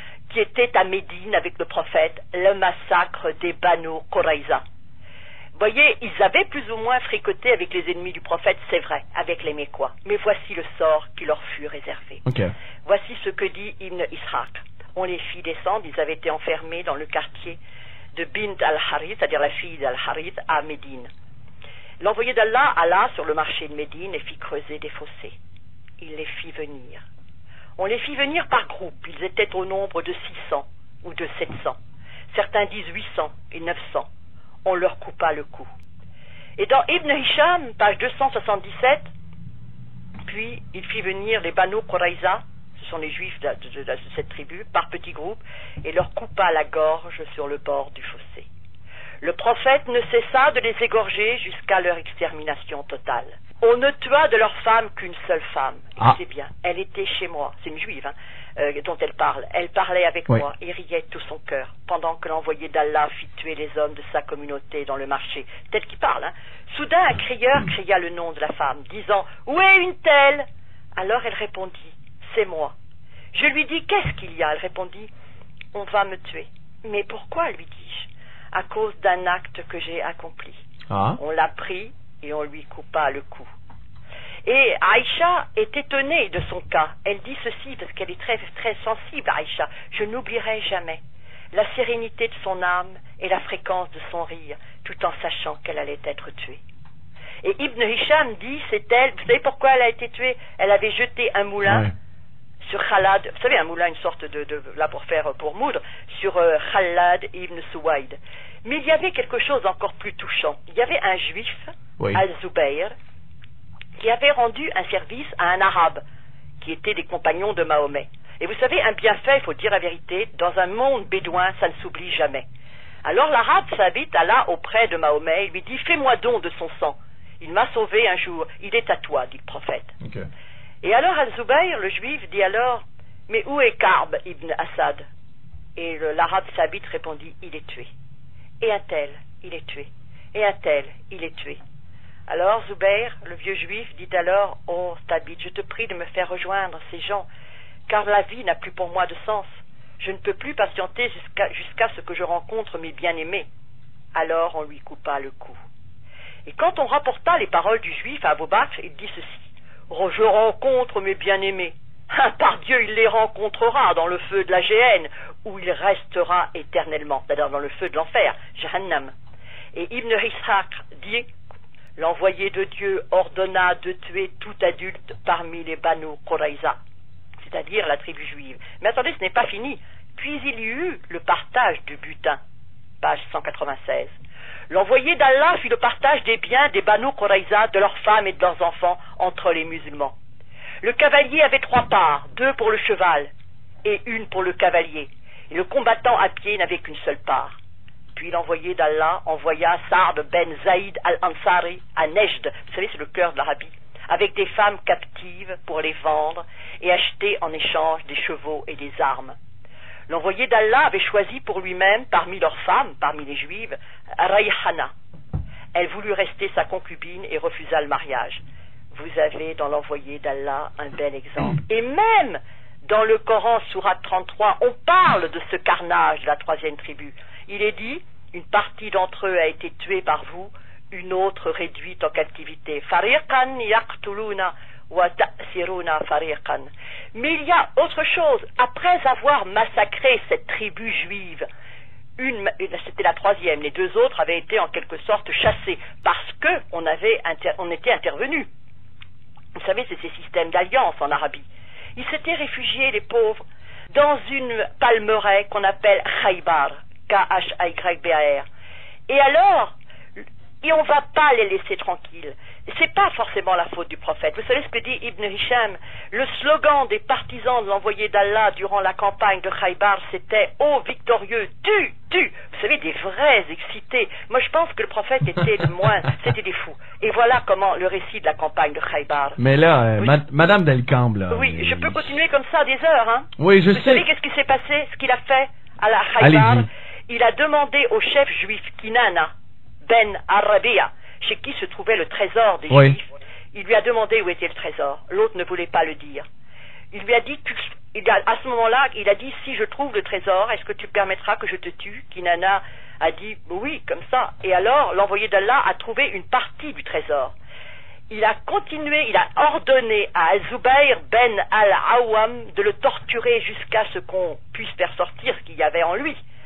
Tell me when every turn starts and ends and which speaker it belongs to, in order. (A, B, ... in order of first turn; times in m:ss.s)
0:00.3-0:04.6 A
0:05.6-0:12.2 A
0:12.3-0:12.5 B
0:12.8-0:17.6 A
0:18.2-0:21.1 A
0:22.0-0:25.4 A
0:26.0-0:27.0 A
0:27.8-0:31.8 A
0:32.3-0:34.1 A
0:34.6-0:35.7 A
0:36.6-0:39.1 A
0:40.2-0:48.5 A
0:49.2-1:10.5 A
1:11.0-1:12.7 A
1:13.3-1:15.1 A
1:15.7-1:20.6 A
1:20.9-1:21.2 B
1:21.2-1:23.5 A
1:24.4-1:31.0 A
1:31.5-1:36.6 A
1:37.4-1:41.9 A
1:41.6-1:41.9 B
1:42.6-1:52.9 A
1:54.0-1:56.0 A
1:56.6-2:02.4 A
2:03.0-2:09.9 A
2:10.8-2:15.0 A
2:15.8-2:17.9 A
2:18.6-2:21.6 A
2:22.3-2:27.3 A
2:27.9-2:33.5 A
2:34.2-2:35.6 A
2:36.5-2:49.1 A
2:49.7-2:51.3 A
2:52.0-2:56.8 A
2:57.4-3:02.4 A
3:03.0-3:04.1 A
3:04.7-3:10.2 A
3:10.8-3:13.3 A
3:13.8-3:17.6 A
3:18.2-3:29.4 A
3:30.1-3:34.9 A
3:35.7-3:38.4 A
3:38.9-4:01.5 A
4:02.2-4:08.5 A
4:09.6-4:11.4 A
4:12.0-4:18.5 A
4:19.1-4:39.4 A
4:39.4-4:42.1 B
4:41.3-4:49.3 A
4:43.4-4:44.1 B
4:46.2-4:46.7 B
4:49.9-4:56.2 A
4:52.7-4:53.0 B
4:56.9-5:07.3 A
5:08.1-5:16.2 A